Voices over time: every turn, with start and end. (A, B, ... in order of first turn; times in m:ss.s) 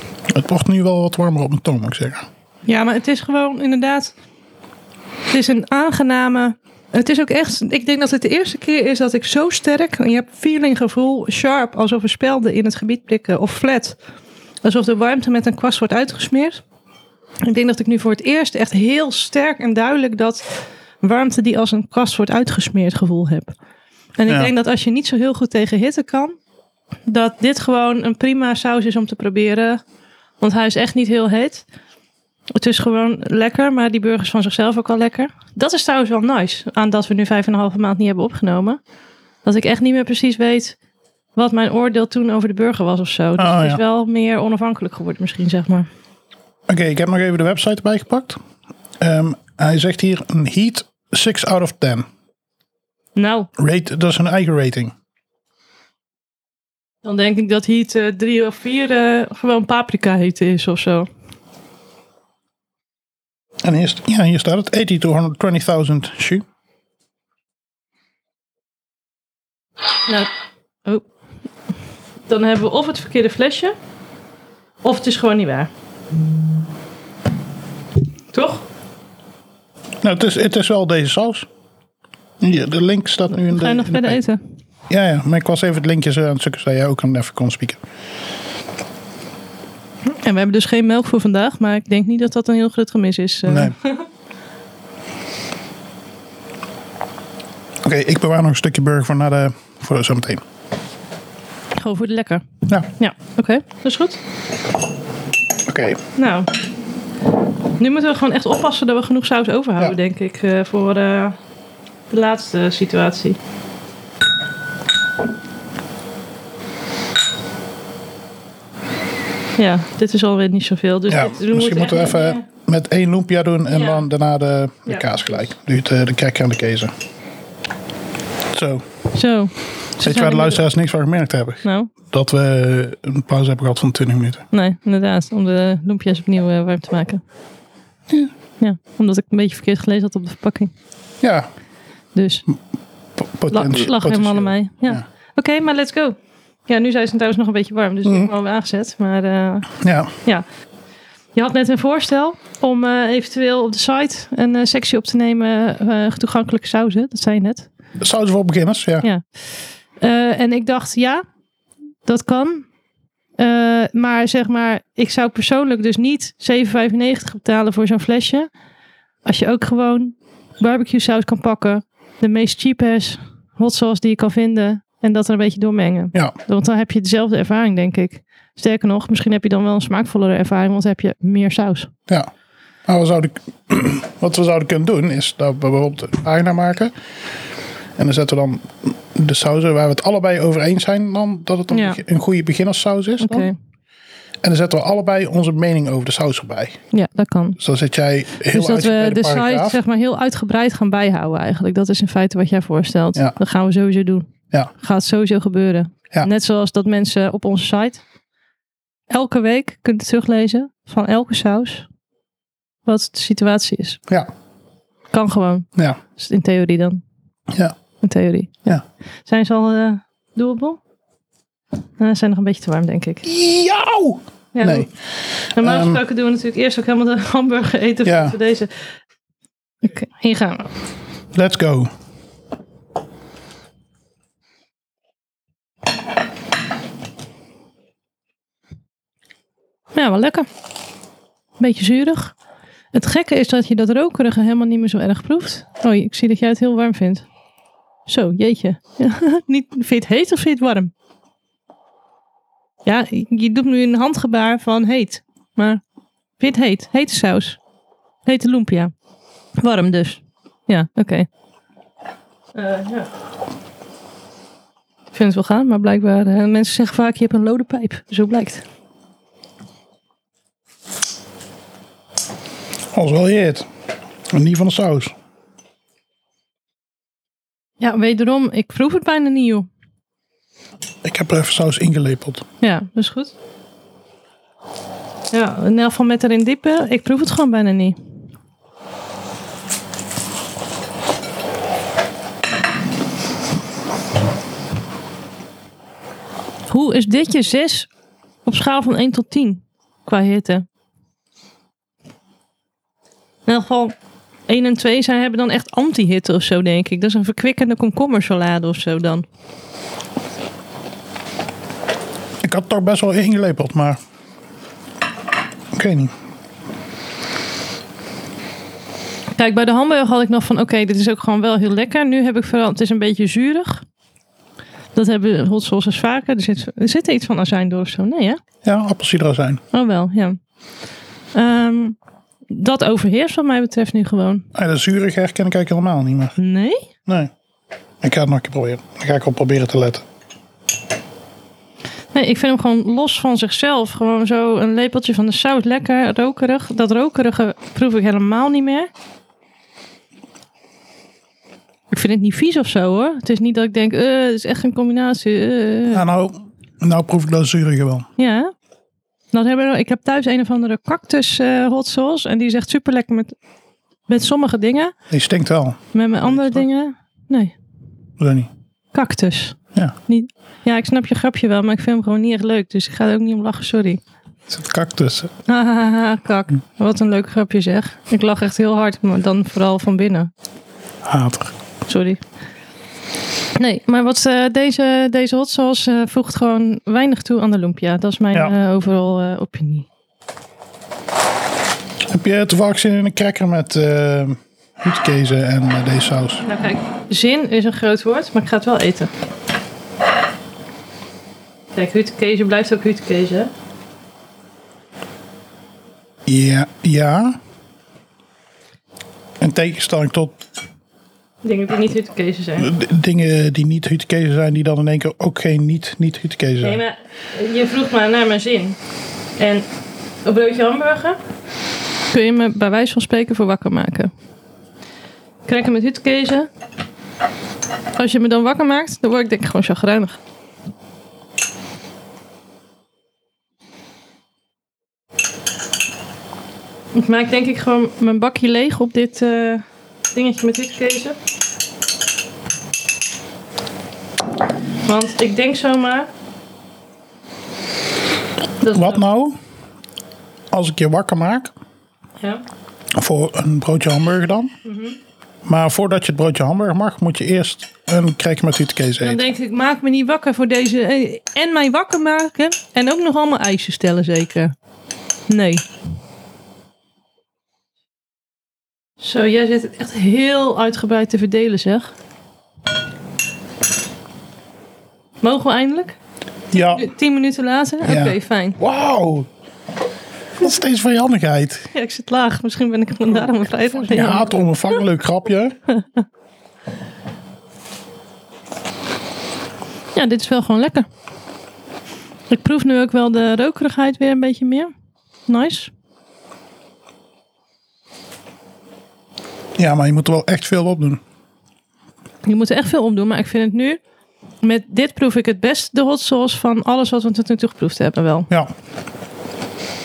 0:00.3-0:02.3 A
0:02.7-0:04.1 B
0:05.3-0:14.0 B
0:14.6-0:16.6 B
0:17.4-0:20.4 B
0:21.0-0:23.5 B
0:24.2-0:26.4 B
0:27.1-0:29.8 B
0:30.4-0:31.6 B
0:32.5-0:38.8 B
0:39.4-0:40.8 B
0:41.4-0:45.9 B
0:43.4-0:43.8 A
0:46.7-0:48.4 A
0:49.0-0:52.1 A
0:53.2-0:53.5 B
0:53.6-0:54.9 A
0:57.0-1:01.1 B
1:03.6-1:06.4 A
1:12.3-1:13.8 B
1:14.8-1:15.7 B
1:18.3-1:18.6 B
1:20.0-1:21.5 A
1:22.4-1:24.2 A
1:23.3-1:24.4 B
1:24.9-1:27.8 A
1:30.1-1:34.0 B
1:33.5-1:33.8 A
1:37.8-1:40.4 A
1:41.8-1:44.2 B
1:45.7-1:46.0 A
1:46.2-1:46.5 B
1:47.8-1:51.4 B
1:52.1-1:53.4 B
1:59.6-2:02.4 B
2:01.1-2:06.9 A
2:03.7-2:04.0 B
2:08.5-2:08.8 A
2:09.1-2:10.6 B
2:10.0-2:14.4 A
2:11.6-2:11.9 B
2:14.5-2:17.2 B
2:18.6-2:20.7 B
2:21.2-2:21.5 A
2:22.2-2:22.4 B
2:23.2-2:25.0 A
2:23.5-2:26.2 B
2:26.7-2:30.4 B
2:28.0-2:28.3 A
2:29.8-2:30.1 A
2:31.4-2:37.7 B
2:38.0-2:39.1 A
2:40.0-2:41.2 B
2:42.1-2:42.7 B
2:43.4-2:48.5 B
2:49.2-3:01.9 B
3:02.9-3:06.9 A
3:08.0-3:13.5 A
3:11.7-3:12.0 B
3:13.2-3:13.6 B
3:14.4-3:16.8 A
3:16.9-3:17.6 B
3:17.6-3:19.8 A
3:18.5-3:28.0 B
3:29.1-3:31.9 B
3:32.9-3:34.0 B
3:35.1-3:37.0 B
3:38.0-3:40.8 B
3:42.0-3:43.2 B
3:43.2-3:44.9 A
3:44.5-3:44.9 B
3:45.5-3:46.0 A
3:45.6-3:48.9 B
3:48.0-3:48.4 A
3:49.8-3:50.7 B
3:51.3-3:51.9 A
4:00.0-4:00.5 B
4:01.6-4:02.3 B
4:02.9-4:07.2 B
4:08.1-4:10.9 B
4:12.8-4:15.8 B
4:16.4-4:17.6 B
4:18.2-4:18.9 B
4:19.6-4:21.3 B
4:22.6-4:23.1 B
4:25.1-4:28.6 B
4:32.9-4:33.7 A
4:34.3-4:35.2 A
4:37.8-4:39.7 B
4:41.0-4:42.4 A
4:42.6-4:43.3 B
4:45.3-4:48.0 B
4:56.7-4:57.9 B
4:58.4-5:00.6 B
5:03.5-5:04.0 B
5:04.5-5:09.2 B
5:12.4-5:14.0 A
5:15.7-5:16.1 A
5:19.4-5:23.8 B
5:25.0-5:28.4 B
5:28.6-5:29.6 A
5:29.7-5:30.4 B
5:31.3-5:32.0 B
5:32.5-5:34.5 B
5:34.5-5:36.4 A
5:36.4-5:36.8 B
5:38.0-5:40.0 A
5:42.1-5:48.9 B
5:51.9-5:56.0 B
5:55.9-5:58.1 A
5:58.2-5:58.5 B
5:59.3-6:03.4 B
6:04.1-6:04.9 B
6:05.1-6:06.6 A
6:05.9-6:07.6 B
6:08.2-6:08.5 A
6:08.9-6:14.0 B
6:14.5-6:15.3 A
6:15.5-6:20.3 B
6:21.0-6:21.5 A
6:21.9-6:22.2 B
6:23.6-6:29.9 B
6:32.1-6:36.4 A
6:36.4-6:39.1 B
6:41.8-6:43.5 B
6:46.3-6:47.4 A
6:49.4-6:50.4 A
6:51.4-6:52.7 B
6:52.6-6:56.8 A
6:56.6-6:58.8 B
6:59.4-6:59.7 B
7:00.2-7:01.2 B
7:02.1-7:04.1 B
7:05.5-7:06.5 B
7:08.0-7:10.2 B
7:16.9-7:21.2 B
7:24.9-7:26.1 B
7:28.6-7:29.0 B
7:28.7-7:29.4 A
7:30.5-7:31.5 A
7:33.0-7:34.5 A
7:34.6-7:35.0 B
7:35.4-7:39.2 A
7:39.0-7:44.5 B
7:45.3-7:45.6 B
7:49.0-7:51.9 B
7:55.2-7:56.0 B
7:56.5-7:56.9 A
7:56.7-7:58.6 B
7:57.8-7:59.3 A
8:00.4-8:01.7 A
8:01.7-8:04.4 B
8:03.8-8:05.6 A
8:05.7-8:06.0 B
8:10.0-8:10.9 B
8:12.3-8:14.7 B
8:15.3-8:15.7 B
8:19.6-8:21.0 A
8:22.2-8:23.8 B
8:24.4-8:28.3 B